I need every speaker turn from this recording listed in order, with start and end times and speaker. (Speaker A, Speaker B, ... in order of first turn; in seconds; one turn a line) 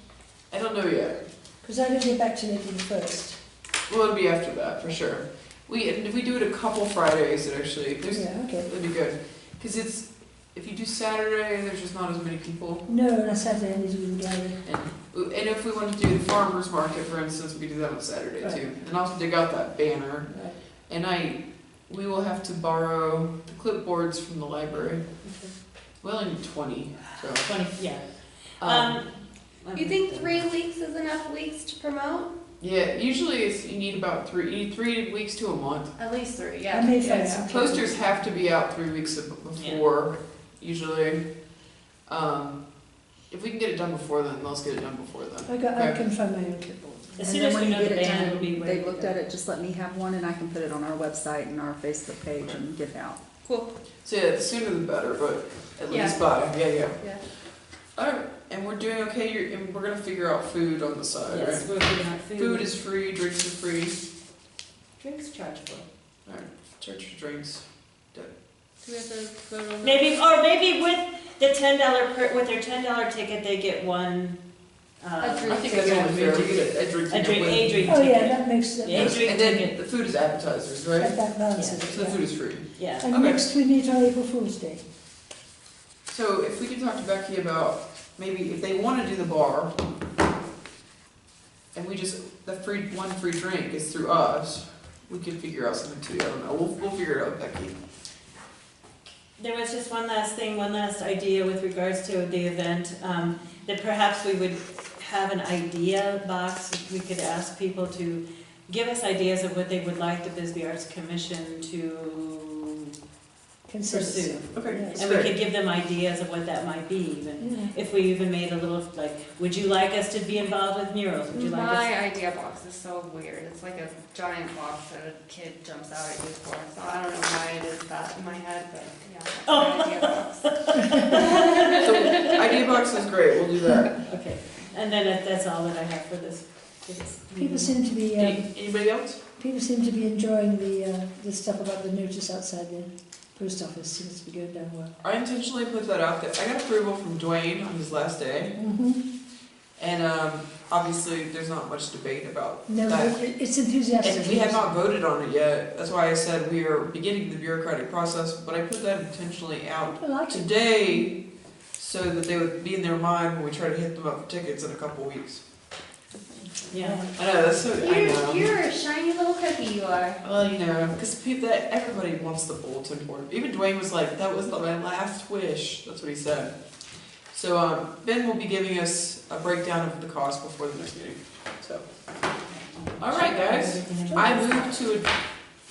Speaker A: 0.5-1.3
Speaker B: 1.6-3.4
Speaker A: 3.9-12.8
Speaker B: 8.1-8.7
Speaker B: 12.9-14.6
Speaker A: 14.6-20.3
Speaker A: 20.9-25.0
Speaker C: 25.2-25.5
Speaker A: 26.0-27.6
Speaker C: 27.4-30.4
Speaker A: 28.6-29.0
Speaker D: 29.7-32.3
Speaker A: 32.6-35.9
Speaker D: 36.0-37.6
Speaker B: 36.7-38.2
Speaker A: 37.5-41.3
Speaker C: 39.5-39.8
Speaker A: 42.0-42.6
Speaker A: 43.3-46.0
Speaker B: 45.5-47.4
Speaker C: 47.1-49.3
Speaker E: 47.2-53.2
Speaker D: 53.4-53.7
Speaker A: 54.0-57.1
Speaker D: 55.9-56.4
Speaker A: 57.9-61.7
Speaker C: 61.2-62.7
Speaker A: 62.3-64.1
Speaker C: 65.0-65.8
Speaker A: 66.2-68.3
Speaker D: 68.8-70.0
Speaker C: 69.8-79.7
Speaker D: 75.2-76.6
Speaker A: 75.5-78.0
Speaker B: 77.8-79.6
Speaker A: 78.9-81.3
Speaker B: 81.0-82.3
Speaker C: 81.5-81.8
Speaker A: 81.9-83.5
Speaker C: 82.8-83.1
Speaker B: 83.0-84.8
Speaker A: 86.1-89.7
Speaker A: 91.7-97.8
Speaker C: 99.4-112.9
Speaker B: 113.7-115.0
Speaker C: 113.9-121.9
Speaker A: 114.5-115.3
Speaker B: 117.4-117.7
Speaker D: 121.3-132.8
Speaker C: 129.4-132.4
Speaker A: 131.8-133.9
Speaker C: 134.1-137.8
Speaker B: 137.4-138.5
Speaker A: 138.1-139.2
Speaker B: 139.4-144.9
Speaker A: 145.0-148.6
Speaker B: 148.6-149.0
Speaker A: 149.8-153.2
Speaker B: 152.7-154.8
Speaker A: 154.0-161.2
Speaker B: 160.0-161.2
Speaker A: 161.8-165.4
Speaker D: 166.3-166.7
Speaker C: 166.7-167.0
Speaker B: 166.8-167.2
Speaker A: 167.1-168.5
Speaker D: 167.8-170.2
Speaker A: 170.2-176.5
Speaker A: 177.3-181.8
Speaker C: 182.5-184.9
Speaker A: 183.0-185.1
Speaker B: 184.1-184.4